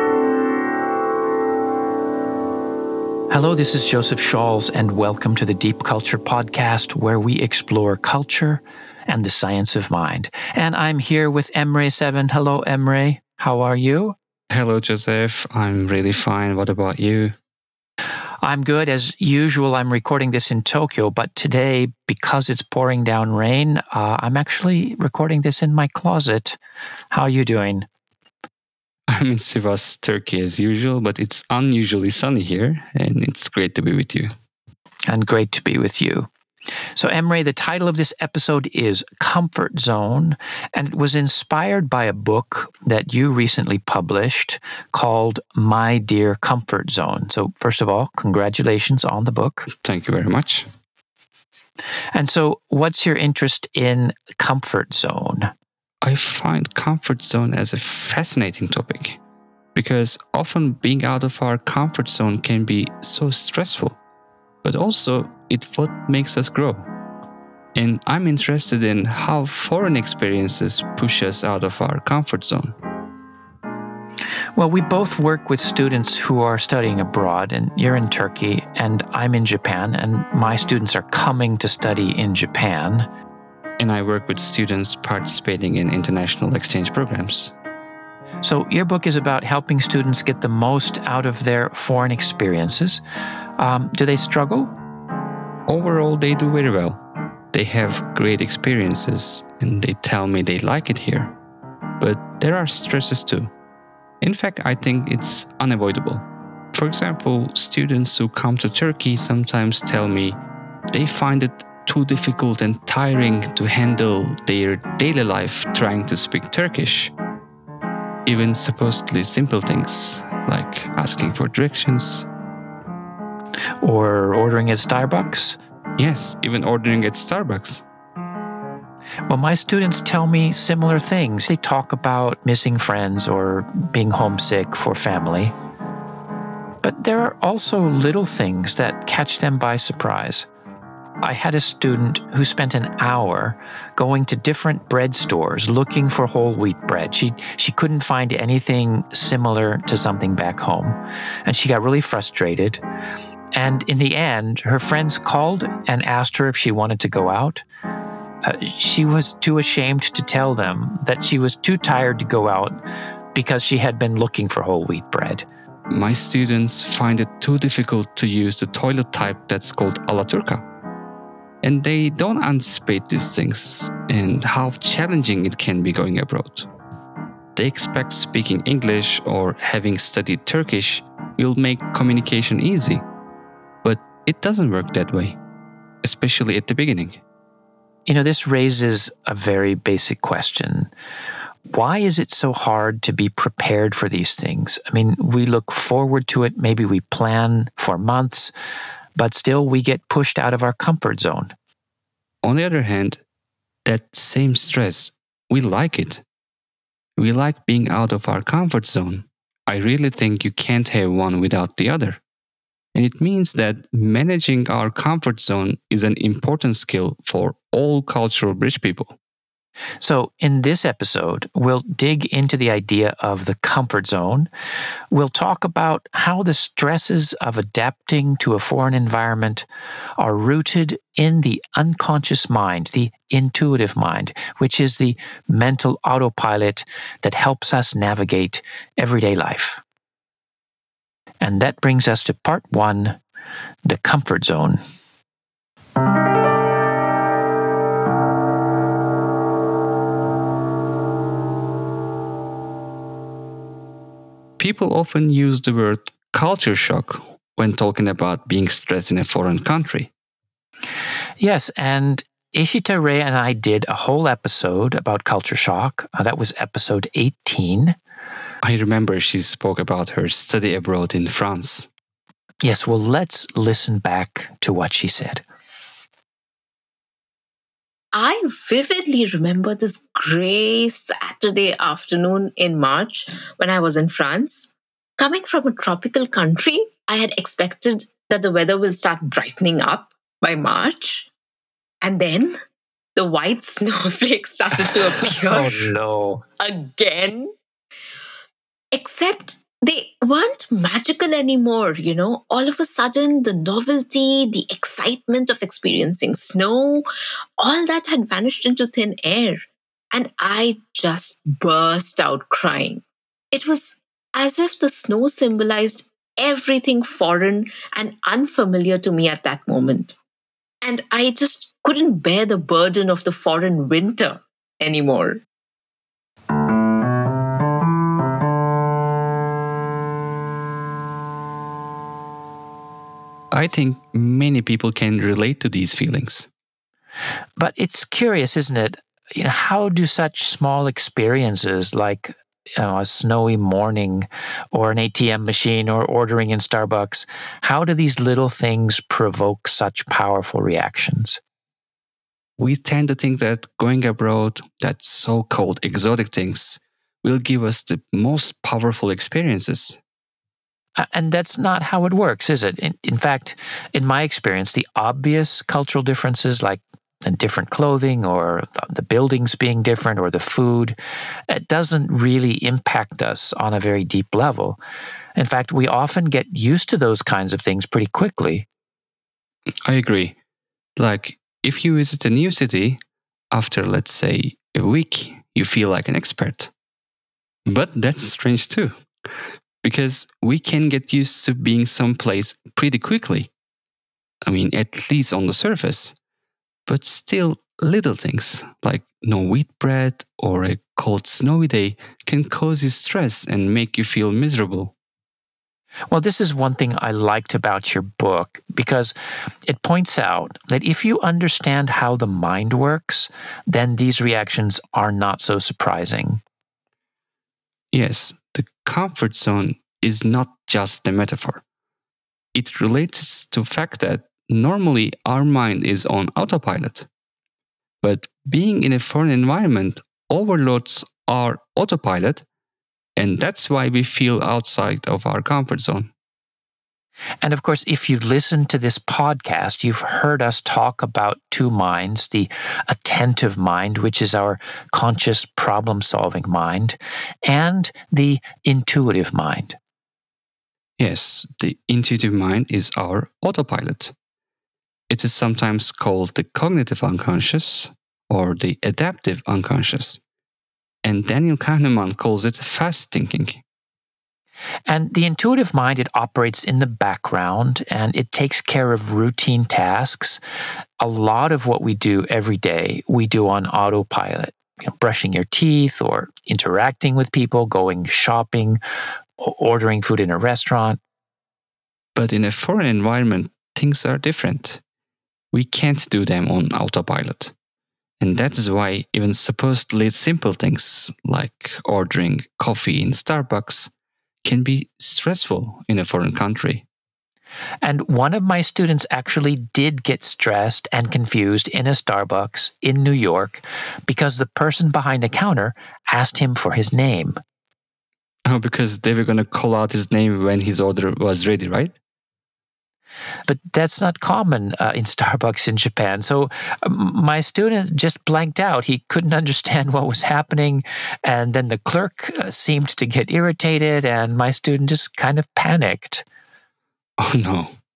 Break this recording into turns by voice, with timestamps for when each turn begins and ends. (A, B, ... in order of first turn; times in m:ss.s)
0:03.3-0:14.2 A
0:14.5-0:17.4 B
0:18.4-0:26.6 A
0:27.1-0:27.9 A
0:29.1-0:34.3 B
0:35.1-0:36.3 A
0:37.0-0:49.7 A
0:49.7-0:50.7 B
0:52.2-0:55.5 A
0:56.0-0:59.2 B
0:59.8-1:04.0 B
1:04.6-1:06.9 B
1:07.8-1:12.8 B
1:14.6-1:23.1 A
1:23.8-1:27.5 B
1:28.4-1:33.0 A
1:33.6-1:34.7 A
1:35.7-1:37.0 B
1:37.5-1:41.3 B
1:42.0-1:43.5 B
1:44.2-1:50.4 B
1:50.9-1:57.1 B
1:58.3-2:02.3 B
2:03.8-2:05.6 A
2:06.0-2:07.8 B
2:09.3-2:15.6 A
2:16.8-2:20.5 A
2:21.2-2:32.8 A
2:33.5-2:37.6 A
2:38.4-2:42.8 A
2:43.3-2:45.4 A
2:45.9-2:50.7 B
2:51.6-2:56.7 B
2:57.6-3:03.0 B
3:03.8-3:05.4 B
3:06.0-3:07.2 B
3:08.1-3:10.9 A
3:11.7-3:18.5 A
3:19.2-3:21.5 A
3:22.4-3:23.2 B
3:23.8-3:26.2 B
3:27.2-3:32.2 B
3:32.9-3:39.2 B
3:40.0-3:44.5 A
3:45.1-3:49.7 A
3:50.2-3:59.8 A
4:01.4-4:03.2 A
4:03.8-4:04.8 A
4:14.6-4:20.1 B
4:21.4-4:28.0 A
4:28.6-4:31.9 B
4:32.6-4:35.4 A
4:38.1-4:51.3 C
4:52.0-4:52.6 C
4:53.2-4:55.9 C
4:55.1-4:56.4 A
4:56.6-4:57.5 C
4:58.9-5:07.1 C
5:07.6-5:20.2 C
5:20.8-5:25.4 C
5:33.5-5:36.5 B
5:37.6-5:51.4 A
5:52.6-6:00.0 B
6:01.0-6:11.0 A
6:11.5-6:14.8 A
6:15.4-6:18.7 A
6:19.9-6:20.4 B
6:21.0-6:23.0 B
6:23.5-6:26.7 B
6:27.7-6:29.0 B
6:29.8-6:33.5 B
6:34.4-6:36.2 B
6:36.9-6:44.9 B
6:46.1-6:49.1 A
6:49.7-6:56.4 A
6:57.9-7:01.6 B
7:02.5-7:07.1 B
7:08.0-7:12.4 B
7:13.2-7:16.1 B
7:17.4-7:29.8 A
7:31.0-7:34.1 B
7:35.1-7:40.2 B
7:41.0-7:43.6 B
7:44.9-7:50.4 A
7:51.0-7:58.8 A
7:59.4-8:01.0 A
8:02.2-8:04.8 B
8:05.5-8:07.5 B
8:08.2-8:13.9 B
8:14.4-8:16.9 B
8:17.8-8:27.4 A
8:28.5-8:32.0 B
8:33.5-8:46.2 A
8:47.2-8:47.7 B